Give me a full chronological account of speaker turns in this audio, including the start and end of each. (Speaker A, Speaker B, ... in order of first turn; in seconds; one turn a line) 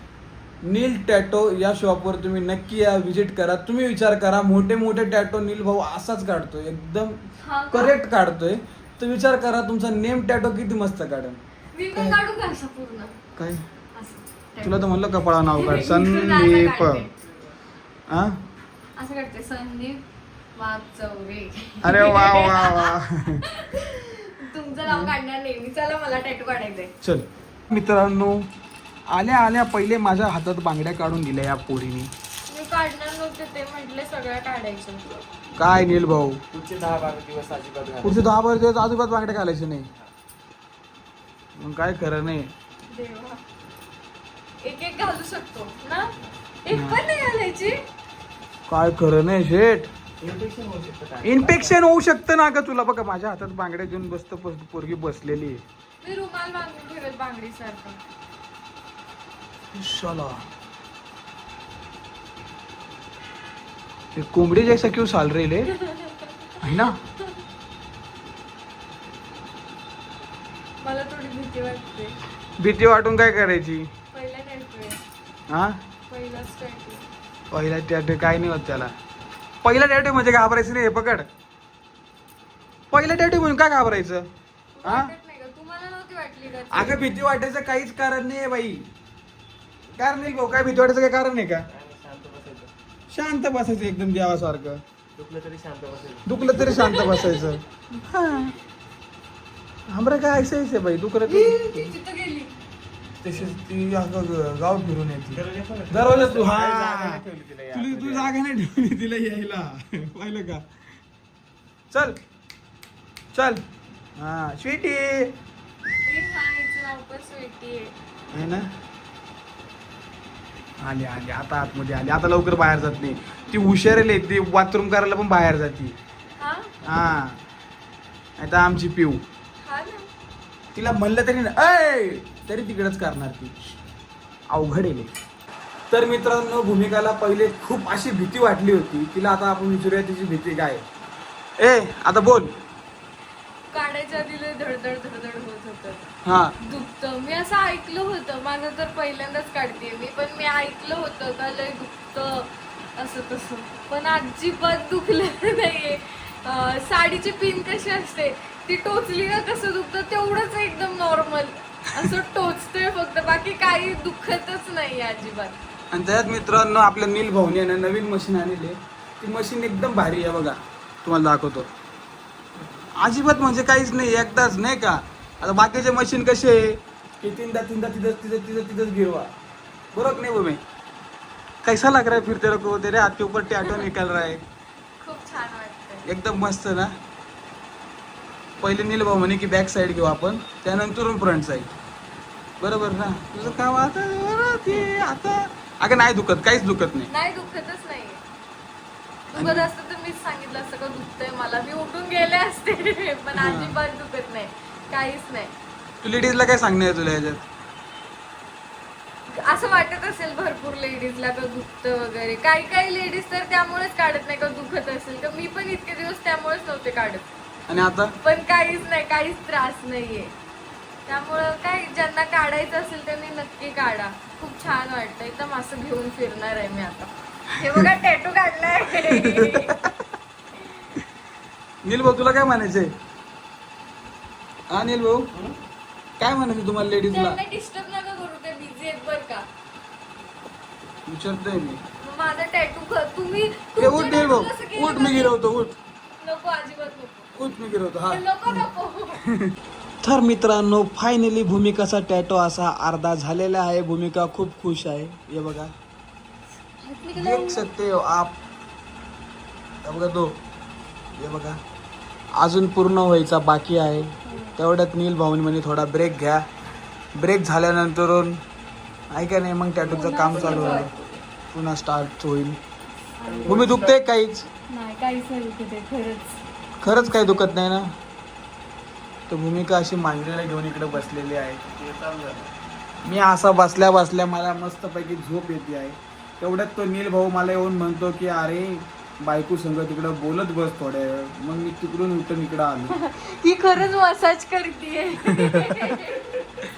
Speaker A: 0.6-7.1
Speaker B: 7.4-8.0
Speaker A: 7.7-11.4
Speaker B: 11.7-13.2
Speaker A: 11.9-12.2
Speaker A: 13.4-13.6
Speaker B: 13.9-14.9
Speaker A: 14.6-17.1
Speaker B: 15.5-17.1
Speaker A: 18.1-18.4
Speaker B: 19.0-20.0
Speaker B: 20.5-26.9
Speaker A: 21.8-23.4
Speaker A: 24.9-25.1
Speaker A: 27.0-28.4
Speaker A: 29.1-32.1
Speaker B: 32.5-35.0
Speaker A: 35.5-36.4
Speaker C: 36.5-38.3
Speaker A: 38.0-39.9
Speaker A: 41.5-42.5
Speaker B: 42.9-43.4
Speaker B: 44.6-46.1
Speaker B: 46.6-47.8
Speaker A: 46.7-47.0
Speaker A: 48.7-49.9
Speaker C: 50.2-51.8
Speaker A: 51.2-55.6
Speaker B: 56.0-58.0
Speaker A: 59.7-60.4
Speaker A: 64.1-65.7
Speaker B: 65.8-66.6
Speaker A: 66.6-67.0
Speaker B: 70.8-72.2
Speaker A: 72.6-73.9
Speaker B: 74.1-75.0
Speaker A: 75.5-75.8
Speaker B: 76.1-77.0
Speaker A: 77.5-78.9
Speaker A: 79.6-81.3
Speaker A: 82.9-84.3
Speaker B: 84.7-87.1
Speaker A: 84.8-85.1
Speaker A: 86.7-88.9
Speaker A: 90.0-91.7
Speaker C: 91.7-92.7
Speaker A: 93.1-94.8
Speaker C: 95.2-96.9
Speaker A: 96.2-98.5
Speaker B: 96.6-97.5
Speaker A: 99.9-102.0
Speaker B: 101.3-102.5
Speaker A: 103.2-107.2
Speaker C: 105.3-108.3
Speaker A: 107.7-110.6
Speaker A: 111.9-112.2
Speaker A: 113.3-113.6
Speaker A: 114.2-115.3
Speaker B: 116.0-117.9
Speaker A: 118.3-118.7
Speaker A: 120.8-126.0
Speaker B: 126.4-126.8
Speaker A: 126.8-127.4
Speaker A: 128.4-129.2
Speaker B: 129.6-130.1
Speaker A: 130.7-133.5
Speaker A: 134.5-135.1
Speaker A: 135.9-140.8
Speaker A: 141.6-142.5
Speaker B: 143.7-146.0
Speaker A: 146.2-146.5
Speaker B: 146.6-165.6
Speaker A: 165.9-171.7
Speaker A: 173.0-179.3
Speaker A: 179.9-180.6
Speaker A: 181.6-184.4
Speaker B: 185.0-186.1
Speaker A: 186.1-186.9
Speaker A: 188.6-191.7
Speaker A: 192.6-197.1
Speaker B: 197.1-198.2
Speaker B: 199.3-205.5
Speaker A: 199.3-199.7
Speaker A: 203.3-203.8
Speaker A: 206.0-207.4
Speaker B: 209.3-217.2
Speaker A: 217.7-218.1
Speaker B: 218.2-220.3
Speaker B: 221.1-229.7
Speaker A: 229.0-229.9
Speaker A: 231.8-232.9
Speaker A: 234.7-235.3
Speaker A: 236.2-237.4
Speaker B: 237.1-239.4
Speaker A: 241.1-241.8
Speaker B: 242.0-245.3
Speaker A: 243.8-245.8
Speaker B: 246.2-247.3
Speaker A: 247.3-248.7
Speaker B: 248.1-249.2
Speaker A: 249.3-255.7
Speaker B: 256.8-257.7
Speaker A: 257.1-258.3
Speaker A: 259.8-260.4
Speaker A: 261.2-261.6
Speaker A: 262.4-266.4
Speaker B: 264.1-264.6
Speaker A: 267.1-268.4
Speaker A: 269.1-270.9
Speaker B: 269.8-271.2
Speaker C: 270.3-270.9
Speaker A: 271.5-272.6
Speaker B: 273.1-273.6
Speaker C: 273.2-274.0
Speaker A: 273.5-274.5
Speaker B: 274.7-276.4
Speaker A: 276.8-277.9
Speaker A: 279.3-281.6
Speaker C: 281.7-282.5
Speaker A: 283.0-292.9
Speaker B: 292.9-296.2
Speaker A: 295.2-295.8